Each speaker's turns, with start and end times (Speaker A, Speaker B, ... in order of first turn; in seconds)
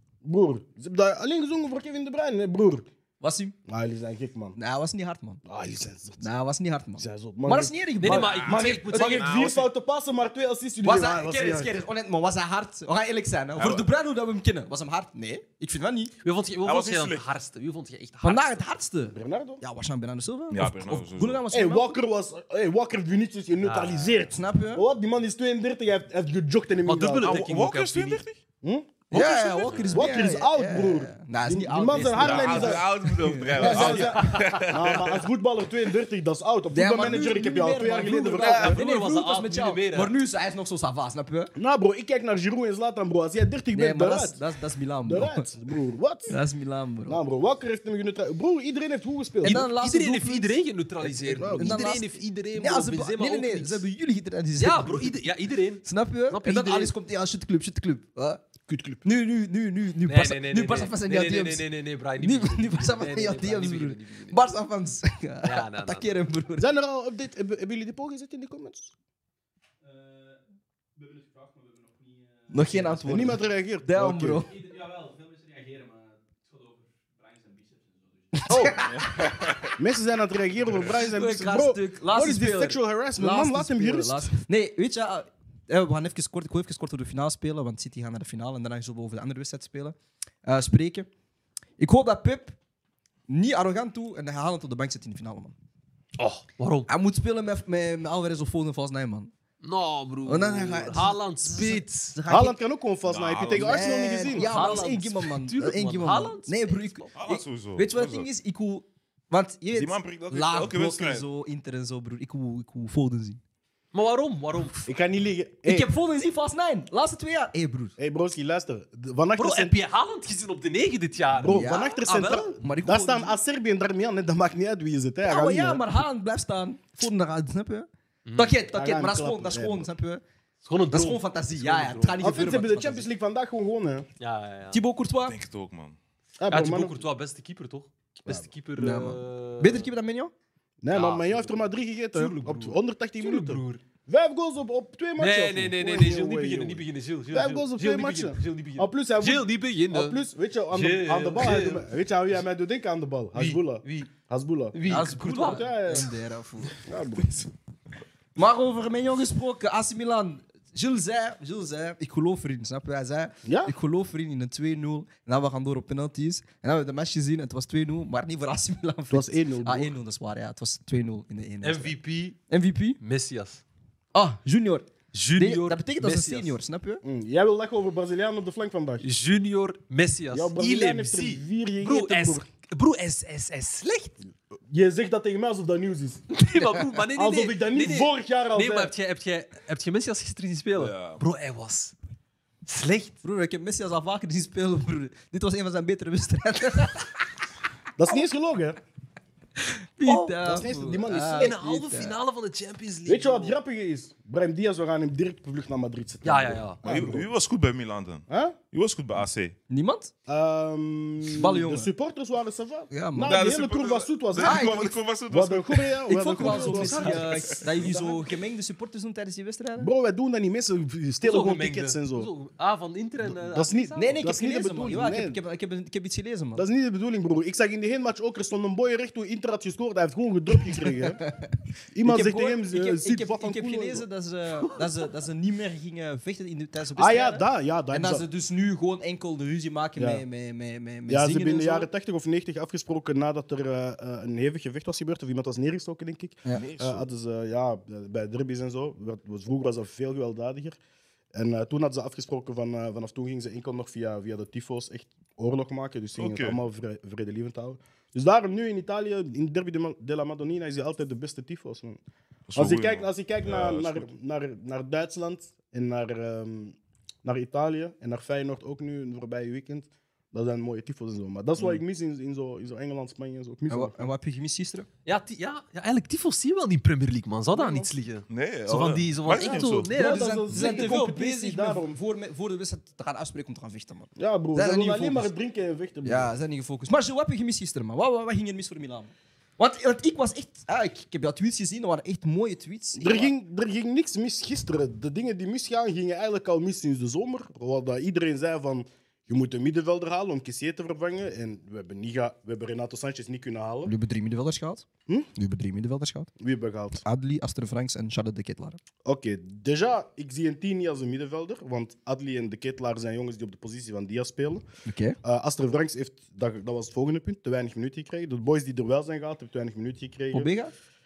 Speaker A: 0.2-2.9, 3.7-4.6, 5.5-6.3, 7.0-11.7, 19.1-19.6, 21.5-27.4, 28.6-29.0, 29.9-32.9, 33.5-38.8, 41.5-44.4, 45.0-46.4, 47.1-49.6, 51.3-51.8, 58.7-59.0, 66.6-68.9, 73.0-74.5, 78.4-78.8, 79.8-84.3, 102.3-104.5, 114.8-115.9, 118.0-119.8, 121.3-125.9, 128.7-129.9, 132.2-134.1, 136.4-137.0, 140.8-156.1, 156.8-157.5, 163.4-163.7, 169.1-169.9, 177.0-179.0, 180.3-182.4, 184.7-186.2, 187.2-188.9, 198.0-198.8, 200.1-201.6, 203.1-207.3, 208.3-208.6, 210.3-218.2, 219.8-222.3, 223.2-225.4, 226.6-231.2, 231.9-234.0, 237.0-238.2, 240.0-240.2, 241.1-250.8, 251.3-262.0, 262.5-274.1, 277.5-277.9, 279.5-281.9, 284.2-286.3, 293.0-303.9, 306.4-307.0, 309.0-314.6, 315.2-320.5
Speaker B: 3.2-3.5, 4.5-5.4, 6.2-8.5, 10.8-16.1, 18.2-22.0, 24.3-24.8, 29.1-34.2, 36.7-41.5, 43.7-45.5, 46.3-47.2, 49.4-55.2, 55.8-58.4, 59.0-61.6, 62.2-66.7, 72.5-74.6, 78.4-79.3, 80.9-91.1, 91.8-92.5, 93.3-95.5, 96.9-99.3, 100.2-102.5, 103.5-113.4, 115.6-117.9, 121.4-122.0, 122.6-123.4, 125.2-130.2, 130.9-133.1, 134.7-135.4, 138.8-140.3, 154.8-156.8, 158.3-172.0, 172.5-173.0, 174.1-177.0, 193.2-197.1, 199.6-202.1, 209.7-210.1, 211.3-211.9, 212.9-213.5, 214.4-214.9, 216.1-219.9, 223.9-226.6, 230.7-241.9, 273.7-274.9, 279.9-285.3, 286.0-293.3, 303.8-306.3, 307.0-308.8, 314.8-315.2, 320.3-320.7
Speaker C: 8.0-9.5, 16.2-18.6, 23.6-24.2, 26.8-28.2, 29.1-30.1, 33.5-34.7, 38.3-40.1, 49.4-53.8, 54.6-56.9, 60.0-64.5, 65.4-66.1, 96.2-96.9, 99.6-102.2, 104.3-107.1, 113.9-114.9, 119.4-122.5, 128.2-128.6, 130.6-132.5, 134.2-134.8, 136.5-139.9, 140.9-141.6, 142.1-143.8, 145.2-151.9, 153.3-154.1, 154.7-155.6, 171.6-172.4, 173.0-173.6, 175.1-176.6, 179.0-184.2, 186.3-191.9, 192.6-193.2, 201.3-203.6, 206.2-206.8, 216.4-217.2, 221.2-224.2, 275.1-280.9
Speaker D: 8.2-9.7, 13.6-13.8, 16.6-17.2, 20.5-21.4, 27.2-28.4, 32.2-35.3, 78.8-79.7, 103.0-103.9, 107.2-108.3, 109.7-111.2, 135.2-136.0, 190.8-191.2, 206.8-209.6, 213.2-216.0, 217.0-217.7, 246.5-247.1, 256.2-256.6, 262.5-264.1, 278.3-279.9